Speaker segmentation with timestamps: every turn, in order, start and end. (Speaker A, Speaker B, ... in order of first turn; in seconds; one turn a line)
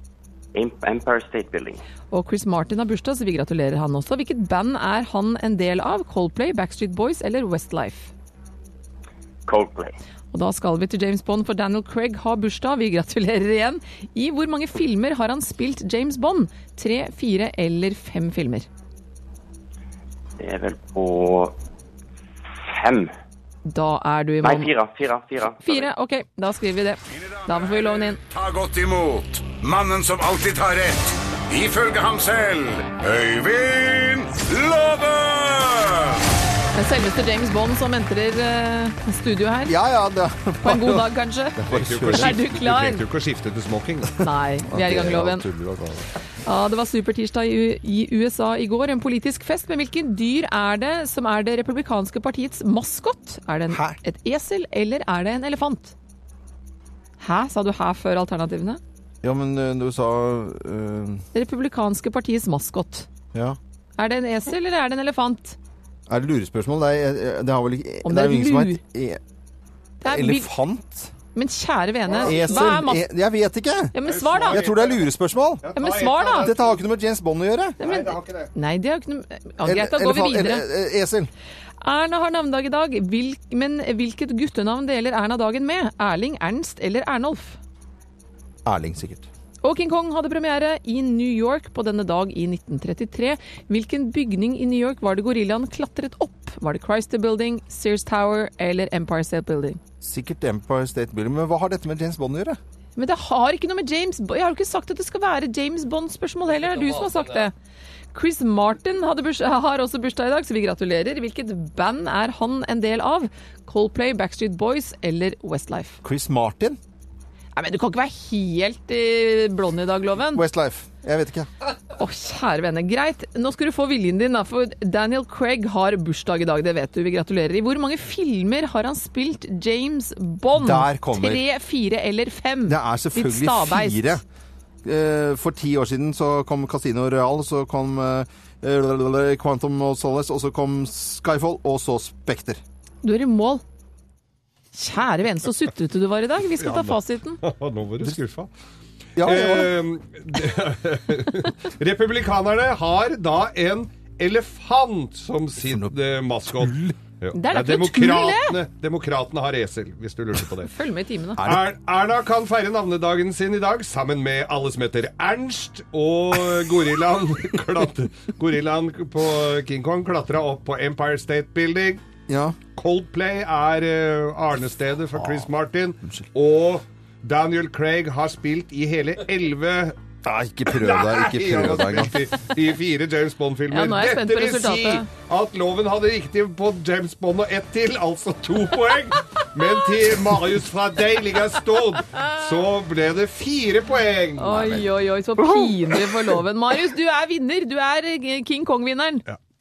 Speaker A: 0.5-1.8
Speaker B: 2.1-8.1
Speaker A: 9.5-9.9
Speaker B: 10.3-18.7
Speaker A: 20.4-21.5
Speaker A: 22.6-23.1
Speaker B: 23.6-24.7
Speaker A: 24.4-25.9
Speaker B: 25.6-28.2
Speaker C: 27.2-36.2
Speaker B: 36.7-39.8
Speaker D: 39.6-42.4
Speaker B: 40.6-41.6
Speaker E: 41.7-44.2
Speaker B: 42.1-43.0
Speaker B: 44.2-45.5
Speaker D: 44.6-46.1
Speaker B: 46.4-55.9
Speaker D: 53.7-54.0
Speaker B: 57.2-58.8
Speaker D: 59.2-61.2
Speaker B: 61.3-63.1
Speaker B: 64.0-65.5
Speaker D: 66.1-69.2
Speaker B: 68.0-68.8
Speaker B: 70.0-70.5
Speaker D: 70.0-71.1
Speaker B: 71.3-73.0
Speaker E: 72.1-72.4
Speaker D: 72.2-75.7
Speaker B: 73.9-74.6
Speaker E: 74.0-75.1
Speaker E: 75.6-76.8
Speaker B: 75.8-76.5
Speaker D: 76.4-77.8
Speaker E: 77.8-78.5
Speaker B: 77.8-80.7
Speaker D: 79.6-81.3
Speaker B: 81.8-87.6
Speaker D: 88.7-89.3
Speaker B: 89.6-99.8
Speaker D: 100.0-102.6
Speaker B: 103.0-107.5
Speaker B: 108.1-116.0
Speaker D: 116.0-116.8
Speaker B: 117.5-120.4
Speaker D: 120.3-121.5
Speaker B: 122.0-134.2
Speaker D: 130.6-131.4
Speaker D: 132.7-134.2
Speaker D: 134.8-142.6
Speaker B: 143.0-143.6
Speaker B: 144.7-147.4
Speaker E: 146.6-148.5
Speaker D: 149.2-149.8
Speaker E: 149.2-160.7
Speaker D: 155.6-155.9
Speaker D: 156.4-156.9
Speaker B: 157.3-158.6
Speaker B: 160.7-161.4
Speaker D: 161.4-161.7
Speaker E: 161.4-172.0
Speaker D: 172.3-172.6
Speaker E: 172.8-179.9
Speaker D: 175.2-175.5
Speaker D: 180.2-182.3
Speaker E: 180.7-194.7
Speaker B: 183.7-185.1
Speaker B: 194.4-199.2